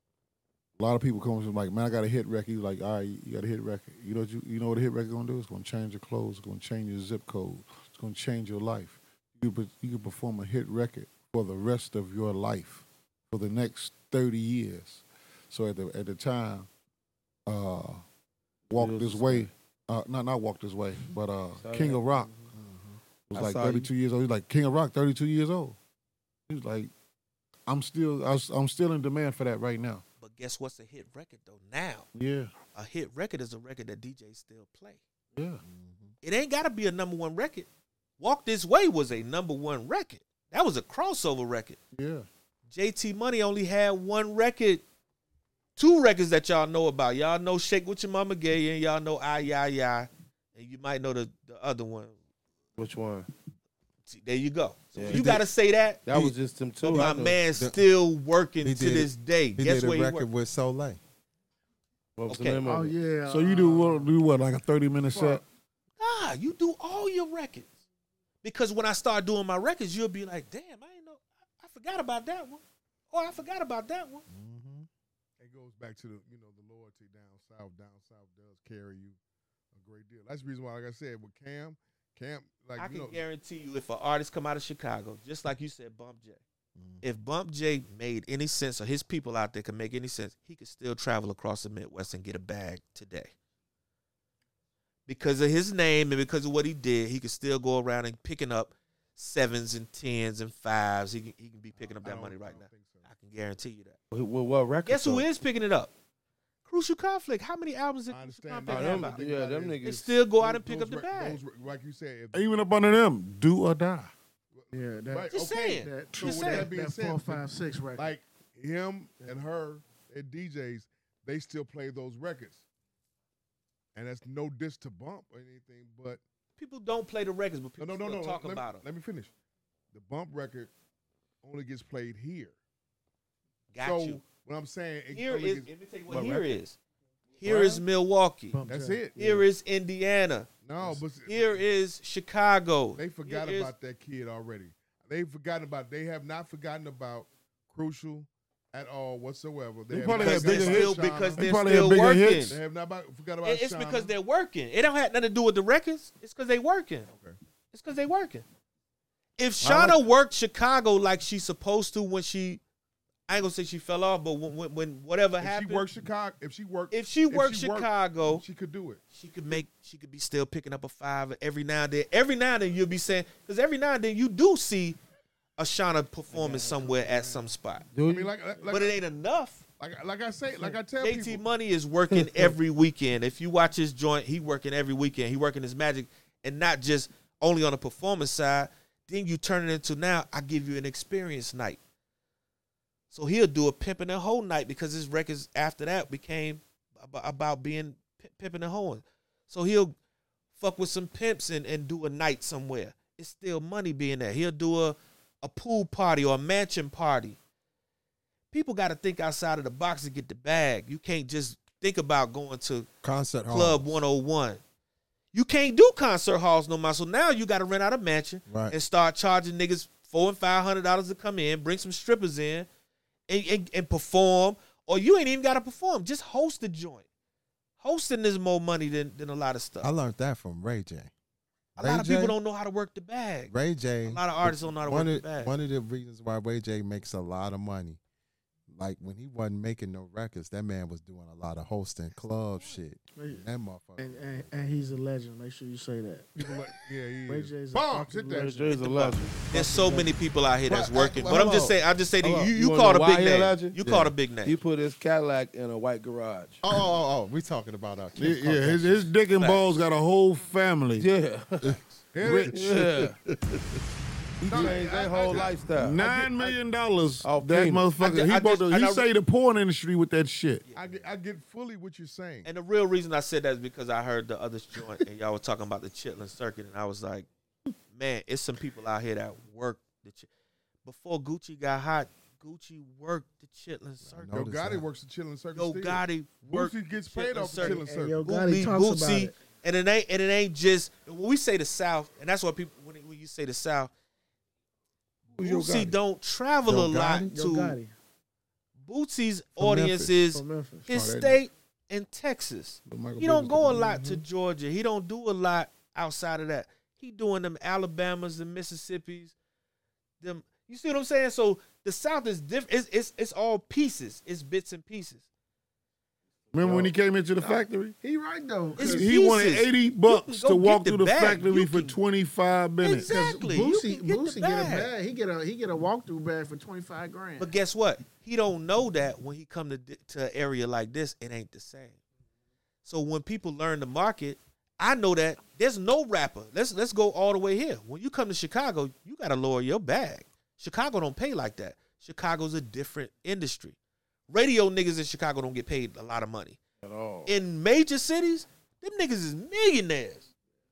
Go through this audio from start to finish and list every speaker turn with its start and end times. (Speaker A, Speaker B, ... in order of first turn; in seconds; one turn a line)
Speaker A: 0.8-16.7
Speaker A: 17.4-18.0
Speaker A: 18.7-22.4
Speaker B: 18.7-19.5
Speaker B: 21.6-22.3
Speaker C: 22.6-23.0
Speaker A: 23.3-25.8
Speaker B: 23.3-23.9
Speaker A: 26.5-26.9
Speaker A: 27.6-30.0
Speaker D: 30.2-32.1
Speaker A: 32.1-32.5
Speaker D: 32.7-35.0
Speaker A: 35.3-35.6
Speaker C: 35.6-36.1
Speaker D: 36.2-37.7
Speaker D: 38.2-41.8
Speaker A: 41.9-42.2
Speaker D: 42.7-44.8
Speaker D: 45.8-52.1
Speaker B: 52.8-53.3
Speaker D: 54.1-56.0
Speaker B: 55.0-55.4
Speaker C: 55.1-55.4
Speaker B: 56.0-57.4
Speaker D: 56.8-60.3
Speaker C: 56.9-57.8
Speaker C: 58.6-61.0
Speaker B: 62.1-63.0
Speaker D: 62.3-62.6
Speaker E: 62.6-64.1
Speaker A: 63.2-65.4
Speaker E: 65.1-65.4
Speaker D: 66.0-67.8
Speaker D: 68.4-74.2
Speaker C: 74.3-74.9
Speaker F: 75.4-79.2
Speaker F: 79.7-83.2
Speaker D: 82.8-86.4
Speaker C: 86.8-87.0
Speaker D: 87.0-93.3
Speaker D: 95.1-104.0
Speaker F: 101.8-103.1
Speaker B: 104.1-105.2
Speaker D: 104.8-105.9
Speaker D: 106.6-109.3
Speaker F: 108.1-112.6
Speaker B: 108.7-110.2
Speaker D: 109.8-111.4
Speaker A: 112.3-114.1
Speaker F: 114.5-122.6
Speaker E: 114.7-118.1
Speaker D: 115.3-116.7
Speaker F: 123.9-126.2
Speaker D: 126.6-128.8
Speaker F: 127.8-129.3
Speaker F: 129.9-130.7
Speaker F: 131.4-132.6
Speaker D: 133.7-134.2
Speaker F: 133.8-135.7
Speaker D: 135.1-136.8
Speaker B: 136.1-136.5
Speaker D: 137.4-138.6
Speaker E: 138.5-139.0
Speaker F: 138.7-139.2
Speaker B: 139.2-139.4
Speaker D: 139.2-140.5
Speaker F: 140.6-141.6
Speaker D: 141.2-143.7
Speaker F: 142.9-151.4
Speaker A: 149.9-152.6
Speaker D: 150.1-152.6
Speaker F: 152.4-154.1
Speaker D: 153.4-157.1
Speaker F: 157.1-157.4
Speaker D: 157.7-158.4
Speaker D: 159.4-162.6
Speaker A: 159.6-159.9
Speaker D: 163.3-165.8
Speaker F: 165.4-169.0
Speaker D: 166.9-168.4
Speaker D: 169.1-175.0
Speaker D: 175.6-177.9
Speaker E: 176.3-176.9
Speaker B: 177.9-178.3
Speaker F: 178.0-179.0
Speaker D: 178.7-179.6
Speaker F: 179.8-181.4
Speaker D: 181.0-191.8
Speaker B: 182.1-182.5
Speaker D: 193.1-199.9
Speaker D: 200.6-207.4
Speaker D: 208.5-212.9
Speaker C: 213.0-213.9
Speaker D: 213.5-214.6
Speaker D: 215.3-222.7
Speaker C: 218.5-218.8
Speaker D: 223.3-227.1
Speaker D: 227.8-229.9
Speaker C: 229.8-231.1
Speaker C: 231.8-232.3
Speaker D: 231.8-233.5
Speaker C: 233.5-238.0
Speaker D: 234.0-235.5
Speaker C: 238.7-244.8
Speaker E: 243.2-243.4
Speaker E: 244.0-246.3
Speaker F: 246.4-248.7
Speaker E: 247.3-248.8
Speaker B: 248.3-249.4
Speaker D: 248.9-254.6
Speaker E: 249.5-250.1
Speaker C: 250.7-251.8
Speaker B: 252.2-256.6
Speaker C: 256.6-259.1
Speaker A: 258.2-261.1
Speaker D: 259.4-259.8
Speaker B: 261.0-261.8
Speaker F: 262.1-262.9
Speaker A: 262.2-262.6
Speaker B: 262.5-263.2
Speaker C: 263.3-263.6
Speaker B: 264.4-266.0
Speaker F: 264.4-266.4
Speaker A: 264.5-264.8
Speaker A: 265.7-270.6
Speaker B: 267.2-268.0
Speaker D: 268.0-269.1
Speaker D: 270.6-271.1
Speaker F: 270.7-272.5
Speaker D: 272.4-277.3
Speaker D: 277.9-280.3
Speaker D: 280.8-284.4
Speaker C: 284.0-284.9
Speaker F: 284.3-288.3
Speaker D: 285.5-293.9
Speaker E: 287.5-289.4
Speaker A: 295.3-296.0
Speaker D: 295.4-297.8
Speaker C: 296.6-297.3
Speaker E: 297.2-297.9
Speaker D: 298.8-309.3
Speaker C: 299.6-300.2
Speaker E: 300.3-300.9
Speaker A: 300.9-301.4
Speaker A: 302.9-304.2
Speaker D: 310.2-315.2
Speaker A: 316.5-318.0
Speaker B: 316.6-316.9
Speaker E: 317.4-319.1
Speaker D: 318.8-322.0
Speaker A: 318.8-323.1
Speaker D: 322.8-324.9
Speaker E: 323.0-327.5
Speaker D: 327.4-332.0
Speaker D: 332.8-343.8
Speaker D: 344.3-346.6
Speaker B: 346.8-347.3
Speaker D: 347.2-350.3